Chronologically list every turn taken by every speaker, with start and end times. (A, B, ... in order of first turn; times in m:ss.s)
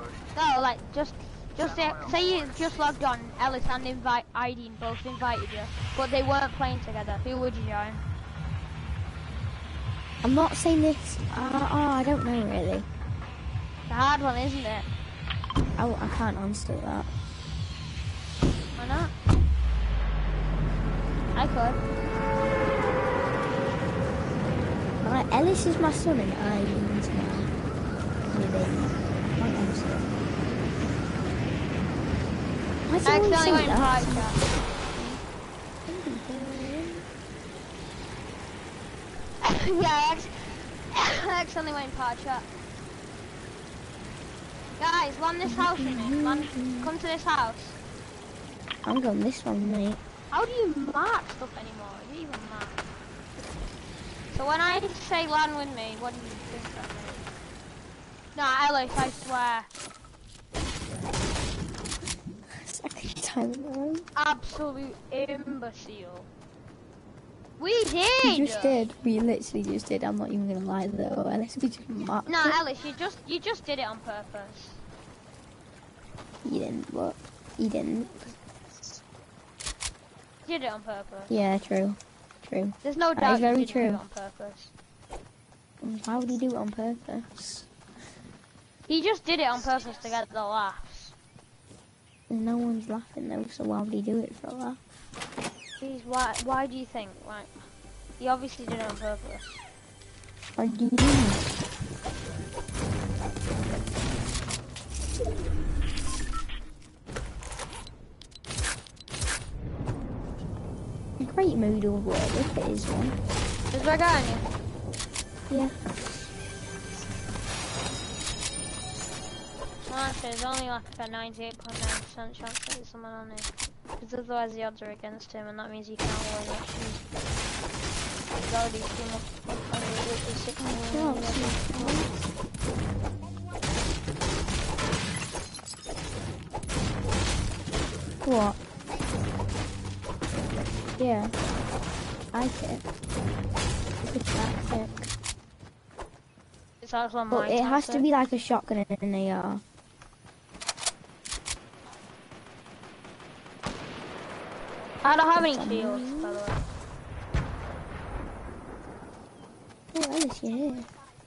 0:00.3-0:08.0 A
0:10.2-0:12.9 B
0:13.9-0:14.9 A
0:15.8-0:17.1 B
0:18.8-0:19.1 A
0:21.3-0:21.8 A
0:25.0-0:27.5 B
0:28.3-0:30.1 B
0:32.9-0:34.4 B
0:33.0-0:34.4 A
0:34.9-0:35.2 B
0:35.8-0:37.0 B
0:39.4-0:42.5 A
0:44.8-0:47.8 A
0:45.4-0:46.9 B
0:48.8-0:50.0 B
0:50.3-0:52.8 A
0:54.3-0:57.2 A
0:58.3-0:59.7 A
1:02.5-1:04.0 B
1:04.1-1:06.3 A
1:07.6-1:08.9 A
1:08.2-1:12.6 B
1:12.2-1:14.8 A
1:16.4-1:18.3 B
1:20.4-1:21.3 A
1:21.3-1:24.0 B
1:22.8-1:24.7 A
1:25.8-1:27.7 B
1:28.9-1:31.1 A
1:32.3-1:34.8 B
1:35.8-1:37.6 A
1:38.2-1:39.6 A
1:40.6-1:41.4 B
1:51.2-1:53.2 B
1:53.7-1:54.5 A
1:55.5-1:55.7 B
1:59.8-2:07.0 A
2:08.4-2:12.2 A
2:10.8-2:12.2 B
2:18.2-2:18.6 B
2:21.0-2:21.3 B
2:22.3-2:22.8 B
2:24.0-2:25.1 B
2:26.8-2:28.1 A
2:27.3-2:29.6 B
2:35.0-2:36.6 A
2:35.3-2:36.4 B
2:39.9-2:40.9 B